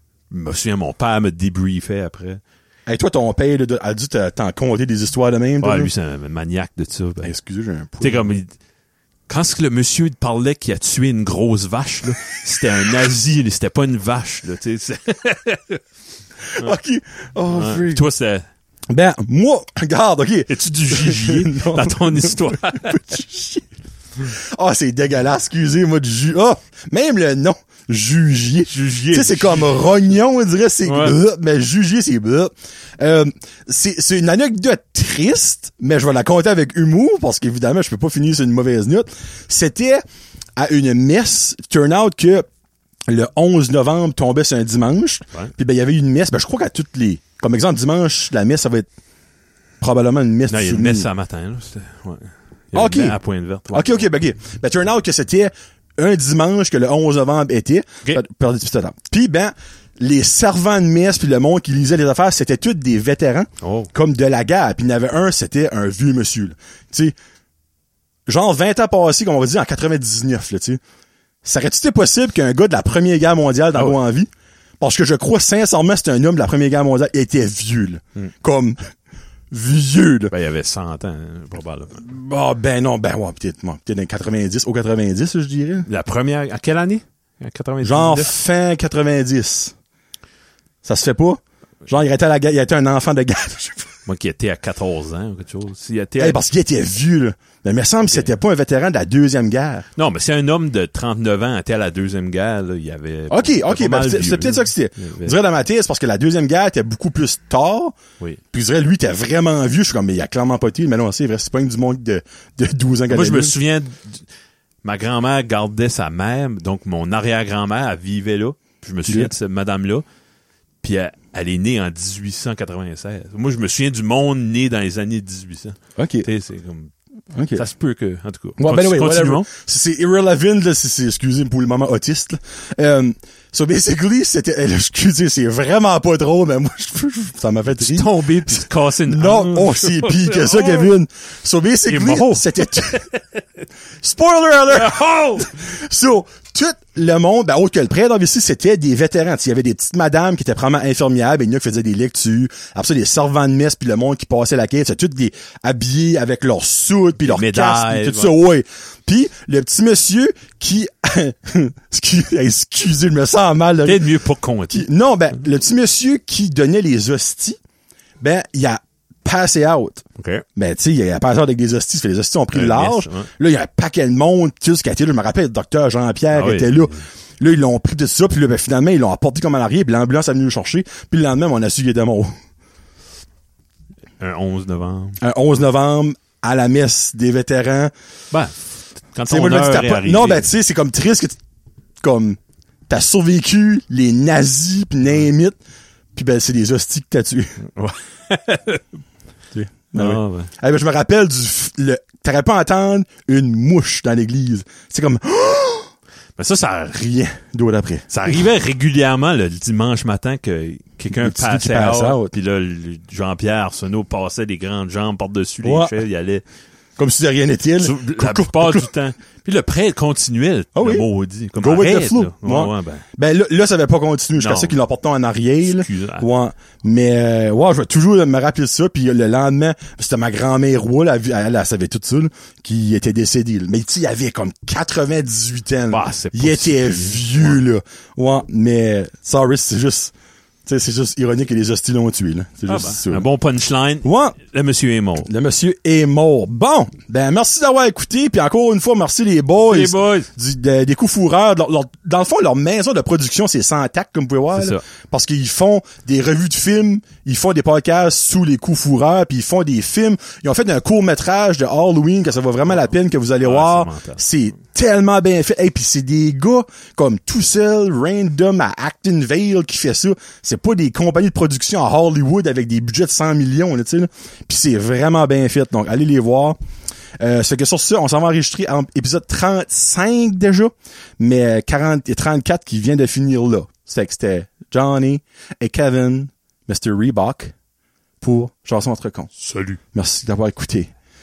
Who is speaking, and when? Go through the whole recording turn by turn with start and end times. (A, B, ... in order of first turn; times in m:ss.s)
0:00.3-0:02.4 A
0:02.9-0:05.9 B
0:05.6-0:07.3 A
0:07.2-0:08.3 B
0:08.0-0:08.5 A
0:09.3-0:15.8 A
0:16.5-0:18.0 B
0:17.5-0:18.4 A
0:18.9-0:23.6 B
0:20.5-0:23.1 A
0:24.2-0:40.0 B
0:28.7-0:29.8 A
0:30.8-0:31.2 A
0:40.6-0:42.5 B
0:43.1-0:48.9 B
0:49.8-0:51.1 B
0:50.5-0:54.1 A
0:52.7-0:53.2 B
0:53.7-1:07.2 B
1:03.6-1:03.9 A
1:08.3-1:10.8 B
1:11.4-1:18.8 B
1:19.5-1:20.3 B
1:20.3-1:22.0 A
1:22.0-1:25.9 B
1:25.9-1:28.3 A
1:27.8-1:29.7 B
1:30.8-1:33.9 B
1:34.1-1:36.4 A
1:36.2-1:39.9 B
1:40.0-1:45.4 A
1:43.3-1:48.0 B
1:48.5-1:53.6 B
1:53.1-1:54.3 A
1:54.8-2:00.0 A
2:00.8-2:06.9 A
2:06.0-2:06.3 B
2:07.4-2:07.7 B
2:07.6-2:09.5 A
2:08.6-2:23.1 B
2:17.7-2:20.9 A
2:21.9-2:23.2 A
2:24.0-2:44.0 B
2:24.7-2:25.5 A
2:37.3-2:38.3 A
2:43.8-2:44.9 A
2:44.7-2:47.6 B
2:48.2-3:02.3 B
2:50.2-2:50.4 A
2:52.5-2:53.3 A
2:56.3-2:57.0 A
3:04.2-3:05.2 A
3:05.2-3:07.9 B
3:08.3-3:10.5 A
3:09.3-3:11.4 B
3:12.0-3:15.6 B
3:16.1-3:17.6 B
3:17.6-3:18.9 A
3:19.5-3:25.9 B
3:19.9-3:20.5 A
3:26.4-3:27.0 A
3:26.9-3:28.4 B
3:28.1-3:36.4 A
3:31.1-3:32.3 B
3:35.6-3:36.0 B
3:37.0-3:38.9 B
3:37.8-3:43.0 A
3:40.8-3:41.1 B
3:41.6-4:00.1 B
3:44.4-3:44.8 A
3:45.6-3:46.3 A
3:55.9-3:57.7 A
4:00.7-4:03.3 B
4:02.7-4:05.3 A
4:04.0-4:04.4 B
4:05.2-4:36.6 B
4:09.6-4:10.3 A
4:14.5-4:14.8 A
4:22.7-4:24.2 A
4:37.2-4:47.5 B
4:48.2-4:49.3 B
4:49.4-4:49.8 A
4:49.9-4:50.9 B